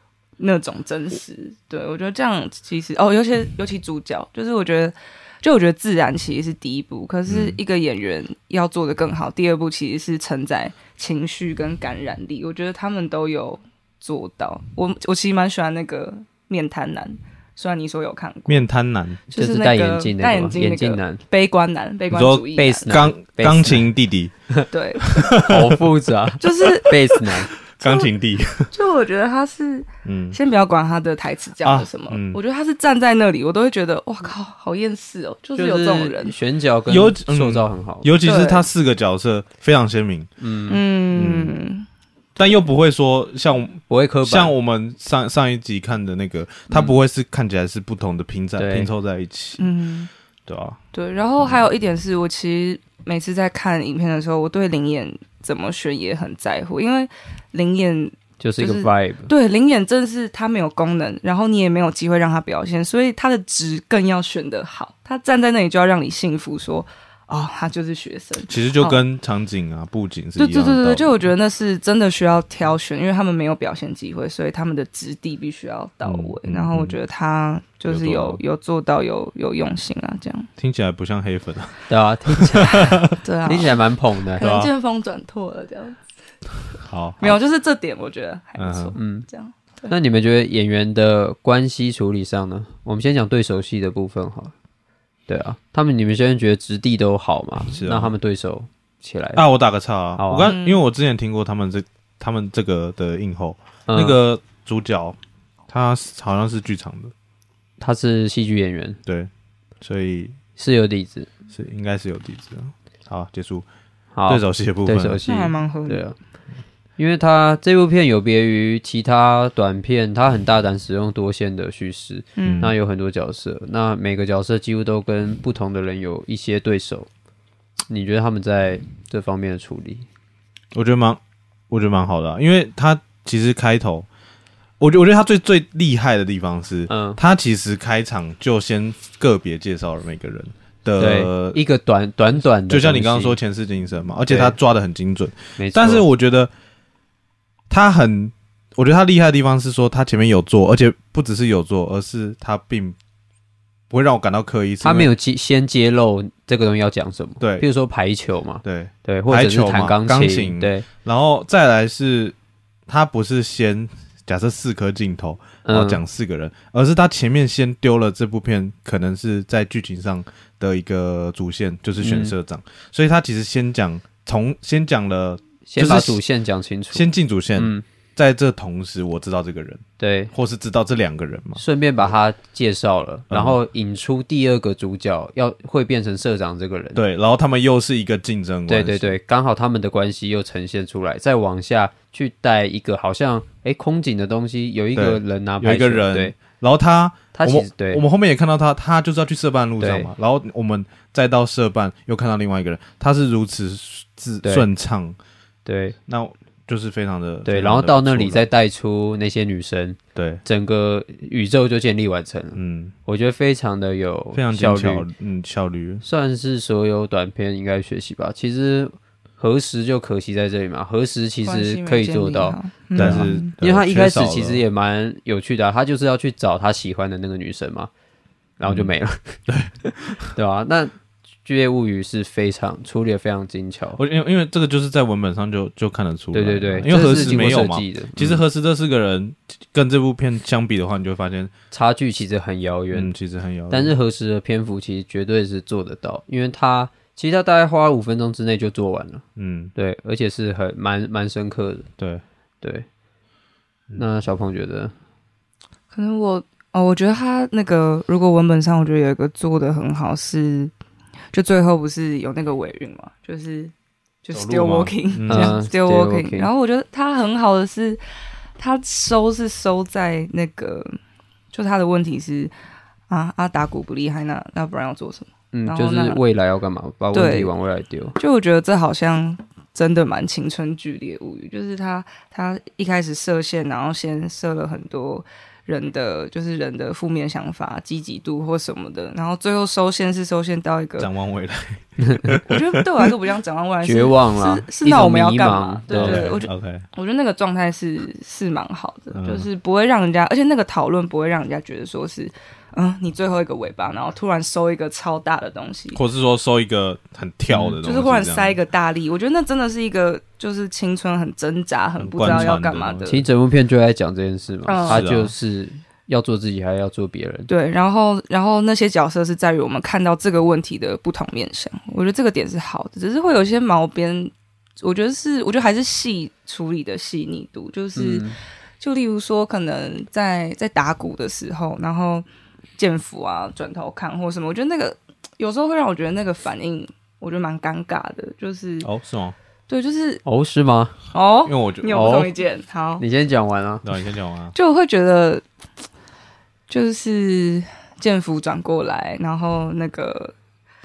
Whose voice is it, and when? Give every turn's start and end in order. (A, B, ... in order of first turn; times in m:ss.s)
0:00.4-0:18.7 A
0:07.3-0:07.6 B
0:18.5-0:19.2 B
0:19.3-0:22.9 A
0:19.3-0:21.2 C
0:22.1-0:24.3 B
0:22.6-0:23.9 C
0:24.7-0:25.2 A
0:25.0-0:25.8 B
0:25.4-0:27.5 C
0:26.4-0:28.1 A
0:27.7-0:28.7 B
0:28.7-0:36.4 A
0:30.0-0:30.4 B
0:31.6-0:32.4 B
0:35.6-0:38.1 C
0:36.9-0:40.3 B
0:38.2-0:38.7 A
0:40.4-0:40.8 C
0:40.7-0:41.9 A
0:41.1-0:41.5 B
0:42.4-0:49.7 B
0:43.9-0:44.6 C
0:46.7-0:47.0 C
0:48.6-0:48.9 C
0:49.6-0:50.1 A
0:50.5-0:50.8 B
0:50.9-1:09.0 A
0:58.4-0:59.3 C
1:08.5-1:11.1 B
1:10.4-1:20.5 A
1:16.0-1:17.0 B
1:17.9-1:18.4 B
1:20.6-1:23.2 B
1:21.9-1:24.4 C
1:22.7-1:23.8 A
1:24.4-1:26.0 A
1:24.4-1:24.7 B
1:26.8-1:27.4 B
1:27.2-1:29.9 A
1:28.6-1:29.0 B
1:29.0-1:29.3 C
1:29.9-1:34.5 C
1:35.3-1:39.4 C
1:37.7-1:38.2 B
1:39.4-1:47.1 B
1:40.2-1:40.5 C
1:40.4-1:40.8 A
1:43.9-1:44.2 C
1:47.8-1:49.0 C
1:49.8-1:50.4 B
1:50.6-1:51.3 C
1:51.5-1:53.7 B
1:54.2-1:56.2 C
1:54.3-1:55.2 B
1:55.3-1:56.0 A
1:57.0-2:07.1 C
2:02.4-2:02.7 A
2:02.4-2:02.7 B
2:07.9-2:10.1 C
2:10.7-2:14.1 B
2:14.8-2:21.6 B
2:16.9-2:17.2 C
2:21.0-2:23.4 C
2:22.7-2:26.5 B
2:24.3-2:24.6 C
2:25.6-2:26.0 C
2:27.7-2:33.0 B
2:33.9-2:35.1 B
2:34.8-2:40.9 C
2:37.4-2:37.7 B
2:38.6-2:42.4 B
2:42.9-2:56.2 B
2:45.6-2:46.0 C
2:52.0-2:52.3 C
2:55.7-2:57.8 C
2:56.9-3:01.6 B
3:00.0-3:00.3 C
3:01.6-3:07.0 C
3:03.3-3:03.6 B
3:07.0-3:09.2 B
3:08.7-3:16.4 C
3:15.0-3:25.2 B
3:17.3-3:18.0 C
3:19.8-3:20.1 C
3:25.6-3:26.0 C
3:26.1-3:28.4 B
3:27.4-3:35.1 C
3:30.2-3:30.4 B
3:32.6-3:32.9 B
3:34.3-3:36.0 B
3:36.0-3:47.9 C
3:41.4-3:43.5 A
3:43.0-3:44.6 B
3:48.6-3:49.4 C
3:48.7-3:48.9 B
3:49.5-3:50.3 B
3:50.4-3:54.0 C
3:54.0-4:01.5 B
3:56.3-3:58.4 C
4:01.7-4:03.1 C
4:02.9-4:03.9 B
4:03.7-4:09.2 C
4:09.4-4:09.7 B
4:09.8-4:11.9 C
4:12.0-4:12.2 B
4:12.6-4:12.9 C
4:14.0-4:14.9 C
4:15.9-4:20.7 A
4:21.3-4:23.7 A
4:24.2-4:28.0 A
4:24.3-4:25.6 B
4:25.3-4:26.5 C
4:28.6-4:31.0 A
4:31.5-4:32.5 A
4:33.1-4:36.2 A
4:35.5-4:38.2 C
4:37.1-4:37.5 A
4:38.2-4:51.1 A
4:51.0-4:53.1 B
4:52.4-5:06.0 A
4:53.8-4:56.4 C
4:55.9-4:56.8 B
4:59.1-4:59.5 B
5:05.9-5:08.6 B
5:07.5-5:07.8 C
5:07.8-5:13.2 A
5:12.0-5:13.1 B
5:12.2-5:12.5 C
5:13.1-5:17.5 C
5:14.7-5:15.1 A
5:14.9-5:15.3 B
5:17.5-5:28.3 A
5:28.0-5:28.4 C
5:28.8-5:32.3 A
5:32.8-5:38.9 A
5:38.8-5:39.4 B
5:39.7-5:40.2 A
5:40.2-5:41.0 C
5:41.1-5:43.0 A
5:41.4-5:42.1 B
5:41.9-5:42.3 C
5:43.0-5:43.9 C
5:43.8-5:44.6 B
5:44.6-5:45.4 A
5:46.7-5:50.3 A